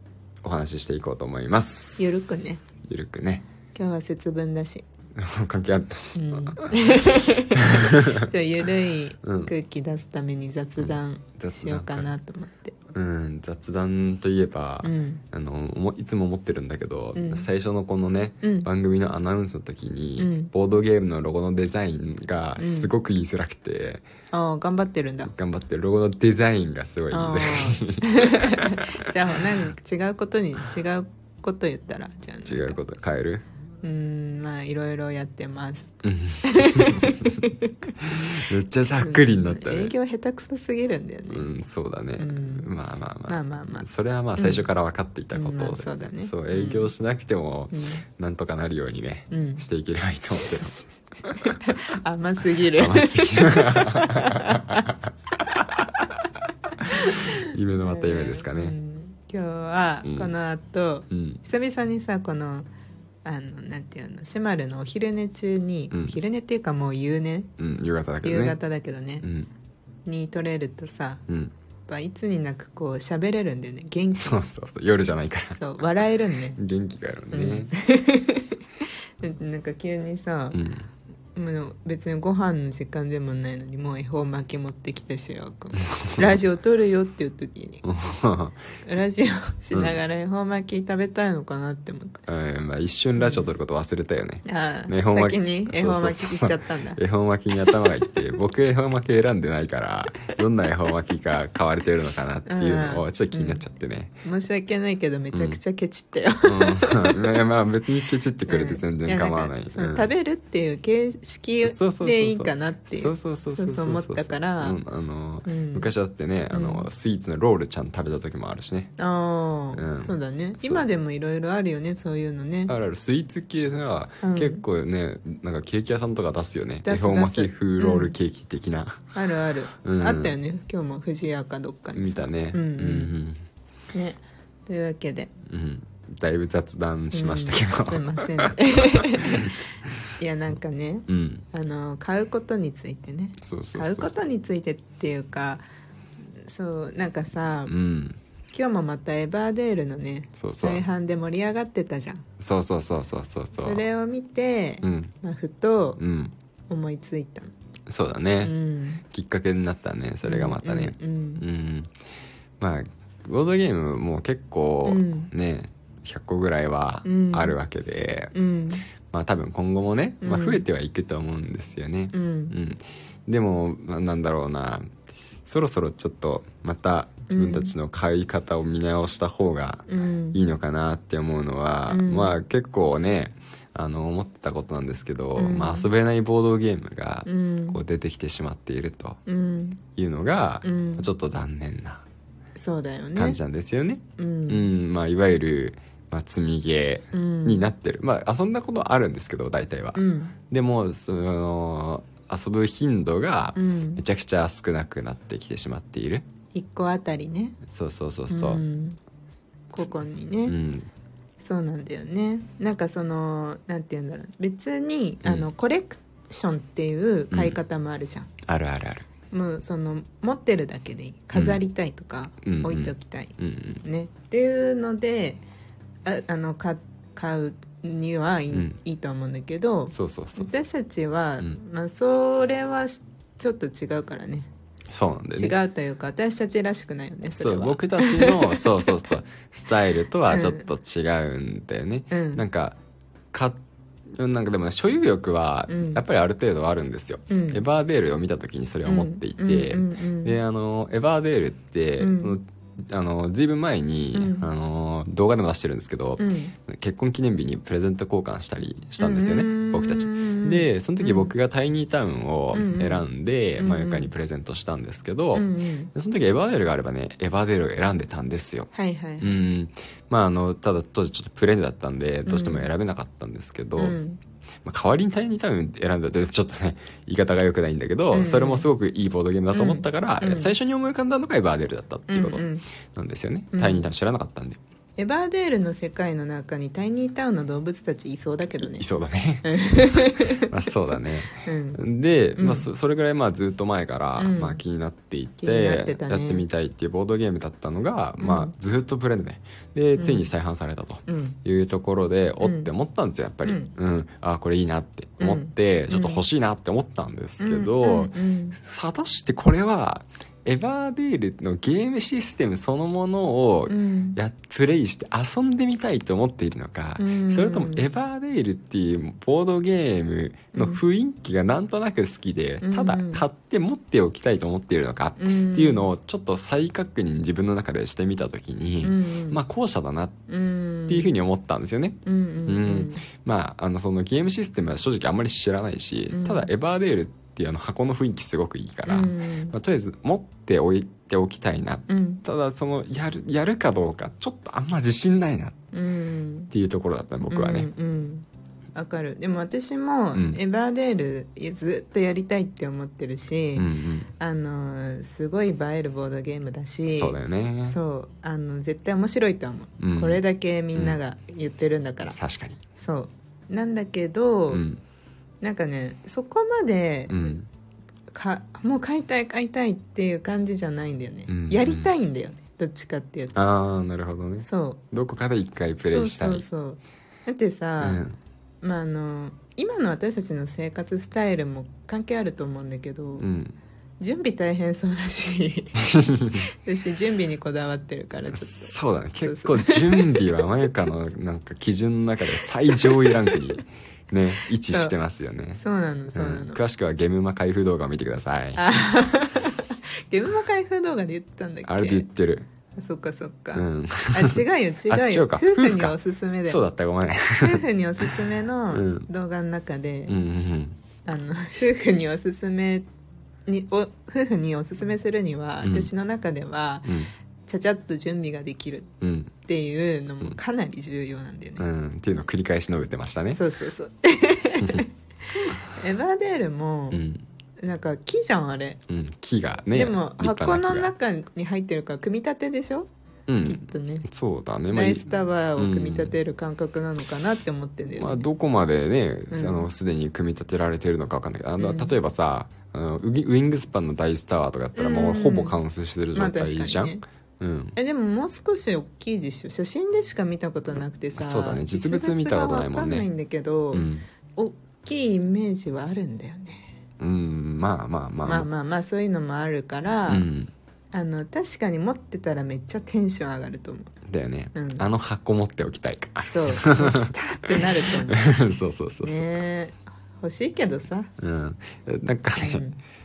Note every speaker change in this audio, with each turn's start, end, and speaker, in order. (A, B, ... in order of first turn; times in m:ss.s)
0:00.4-0:03.5 A
0:02.0-0:02.6 B
0:03.7-0:04.9 B
0:05.2-0:06.7 A
0:06.2-0:12.8 B
0:07.6-0:08.3 A
0:09.2-0:09.5 A
0:10.8-0:12.1 A
0:12.9-0:24.1 A
0:14.8-0:15.2 B
0:17.2-0:17.5 B
0:18.4-0:18.7 B
0:20.2-0:20.5 B
0:22.6-0:22.9 B
0:24.3-0:25.3 B
0:25.2-0:28.7 A
0:27.1-0:32.8 B
0:32.4-0:33.4 A
0:33.8-0:38.3 B
0:36.0-0:37.5 A
0:38.0-0:39.9 A
0:39.0-0:41.5 B
0:41.3-0:51.6 A
0:42.2-0:42.7 B
0:43.3-0:44.7 B
0:45.3-0:46.9 B
0:47.7-0:48.0 B
0:49.3-0:49.6 B
0:50.4-0:50.9 B
0:51.4-0:54.9 B
0:52.8-0:54.7 A
0:55.6-0:55.9 A
0:56.8-1:02.7 B
0:57.4-0:58.8 A
1:00.0-1:00.3 A
1:01.1-1:01.4 A
1:03.2-1:07.5 B
1:05.9-1:06.2 A
1:07.6-1:08.6 A
1:08.2-1:09.3 B
1:09.2-1:09.5 A
1:10.1-1:11.2 B
1:11.3-1:11.5 A
1:11.9-1:14.4 B
1:14.2-1:15.6 A
1:15.6-1:16.6 B
1:16.6-1:17.7 A
1:17.3-1:20.6 B
1:20.5-1:20.9 A
1:21.4-1:27.8 B
1:26.0-1:26.3 A
1:27.8-1:28.6 A
1:28.8-1:32.2 B
1:29.7-1:30.0 A
1:32.3-1:44.1 A
1:33.2-1:33.5 B
1:34.4-1:37.0 B
1:37.5-1:38.2 B
1:42.5-1:43.6 B
1:44.2-1:47.4 B
1:45.3-1:45.6 A
1:46.4-1:50.1 A
1:48.5-1:54.8 B
1:51.6-1:59.0 A
1:55.5-1:55.9 B
1:56.5-1:56.9 B
1:59.0-2:02.7 B
1:59.7-2:00.8 A
2:02.7-2:09.1 A
2:04.2-2:04.6 B
2:06.8-2:08.2 B
2:09.1-2:13.1 B
2:09.8-2:10.4 A
2:12.0-2:13.4 A
2:13.9-2:15.3 B
2:15.5-2:18.6 A
2:17.1-2:19.6 B
2:19.2-2:19.5 A
2:20.2-2:25.6 B
2:21.1-2:21.4 A
2:23.4-2:24.2 A
2:26.4-2:27.7 B
2:27.7-2:28.2 A
2:28.5-2:32.2 B
2:30.4-2:30.8 A
2:32.4-2:33.8 A
2:33.6-2:36.0 B
2:34.8-2:35.1 A
2:36.0-2:36.3 A
2:36.7-2:37.5 B
2:37.9-2:38.6 A
2:38.4-2:39.0 B
2:39.1-2:41.9 A
2:40.2-2:41.4 B
2:42.6-2:48.3 A
2:44.8-2:45.3 B
2:47.0-2:47.6 B
2:48.3-2:48.8 B
2:49.1-2:54.9 A
2:50.2-2:50.6 B
2:52.1-2:52.6 B
2:55.4-3:09.2 A
2:57.3-2:57.7 B
2:59.9-3:00.4 B
3:01.9-3:02.4 B
3:05.4-3:05.9 B
3:07.2-3:07.8 B
3:09.3-3:09.8 B
3:10.0-3:12.0 A
3:10.6-3:11.1 B
3:12.6-3:13.4 B
3:13.2-3:26.2 A
3:14.2-3:14.7 B
3:17.1-3:17.7 B
3:20.0-3:20.4 B
3:23.6-3:24.0 B
3:26.5-3:27.6 B
3:27.7-3:28.6 A
3:28.3-3:29.0 B
3:29.7-3:30.6 B
3:30.4-3:30.9 A
3:31.4-3:38.3 B
3:35.2-3:35.5 A
3:37.3-3:37.6 A
3:38.5-3:39.1 A
3:39.3-3:45.4 B
3:41.3-3:41.6 A
3:42.4-3:43.8 A
3:46.0-3:54.5 B
3:49.9-3:50.6 A
3:54.9-3:55.6 A
3:55.4-3:58.9 B
3:57.3-4:02.8 A
4:00.3-4:00.6 B
4:02.1-4:02.4 B
4:03.3-4:03.6 A
4:04.1-4:34.0 A
4:05.7-4:06.0 B
4:07.3-4:07.6 B
4:08.8-4:10.4 B
4:12.0-4:12.4 B
4:14.1-4:14.5 B
4:16.2-4:16.5 B
4:19.0-4:21.3 B
4:22.5-4:23.0 B
4:23.6-4:24.1 B
4:25.3-4:25.9 B
4:28.7-4:29.4 B
4:32.3-4:32.7 B
4:33.8-4:34.2 B
4:34.6-4:44.6 A
4:38.1-4:38.7 B
4:39.5-4:40.5 B
4:42.1-4:42.6 B
4:43.5-4:43.8 B
4:45.0-4:48.9 B
4:48.6-4:49.6 A
4:49.4-4:50.5 B
4:50.4-5:30.2 A
4:51.3-4:51.8 B
4:52.4-4:52.7 B
4:54.2-4:54.6 B
4:55.4-4:56.4 B
4:58.2-4:58.5 B
5:00.0-5:00.3 B
5:01.1-5:01.4 B
5:02.4-5:02.7 B
5:03.4-5:03.7 B
5:05.2-5:06.2 B
5:07.4-5:08.6 B
5:13.7-5:14.2 B
5:17.0-5:17.9 B
5:20.6-5:20.8 B
5:22.6-5:23.3 B
5:25.2-5:25.9 B
5:28.8-5:29.4 B
5:30.3-5:31.1 B
5:30.9-5:45.6 A
5:32.0-5:33.0 B
5:36.1-5:36.5 B
5:38.9-5:39.5 B
5:41.9-5:42.2 B
5:45.7-5:46.5 B
5:46.5-5:47.7 A
5:47.3-5:53.7 B
5:50.1-5:50.4 A
5:53.6-5:54.1 A
5:54.2-6:02.2 B
5:56.9-5:57.8 A
5:59.8-6:00.2 A
6:02.1-6:02.6 A
6:02.8-6:04.6 B
6:04.5-6:04.8 A
6:05.4-6:07.2 B
6:07.1-6:07.5 A
6:08.1-6:13.4 B
6:11.3-6:11.9 A
6:13.4-6:16.5 A
6:14.4-6:14.8 B
6:15.8-6:18.0 B
6:17.8-6:18.2 A
6:18.6-6:23.3 B
6:23.2-6:23.6 A
6:24.0-6:30.5 B
6:25.8-6:26.5 A
6:28.3-6:35.6 A
6:32.7-6:33.4 B
6:34.7-6:35.0 B
6:35.6-6:36.6 B
6:36.1-6:38.6 A
6:38.6-6:42.1 B
6:41.6-6:42.5 A
6:42.8-6:46.6 B
6:43.5-6:48.1 A
6:47.4-6:50.1 B
6:48.7-6:49.1 A
6:50.1-6:50.8 A
6:51.0-6:52.9 B
6:53.5-6:58.9 B
6:55.6-6:55.9 A
6:56.8-6:57.1 A
6:59.0-6:59.3 A
6:59.4-7:01.7 B
7:01.6-7:03.4 A
7:03.3-7:07.0 B
7:04.6-7:04.9 A
7:06.9-7:07.2 A
7:07.6-7:08.8 B
7:08.9-7:10.9 A
7:09.7-7:12.9 B
7:13.3-7:16.2 A
7:13.4-7:14.1 B
7:14.7-7:18.3 B
7:18.0-7:27.8 A
7:19.3-7:19.7 B
7:21.6-7:21.9 B
7:24.8-7:25.6 B
7:26.1-7:27.0 B
7:27.8-7:36.7 B
7:31.2-7:33.1 A
7:33.7-7:34.1 A
7:37.0-7:38.5 A
7:38.2-7:40.3 B
7:40.1-7:40.5 A
7:40.9-7:43.9 B
7:44.1-7:47.1 A
7:44.5-7:44.9 B
7:46.3-7:48.3 B
7:48.1-7:49.3 A
7:49.0-7:51.1 B
7:51.2-7:52.6 A
7:52.4-7:52.8 B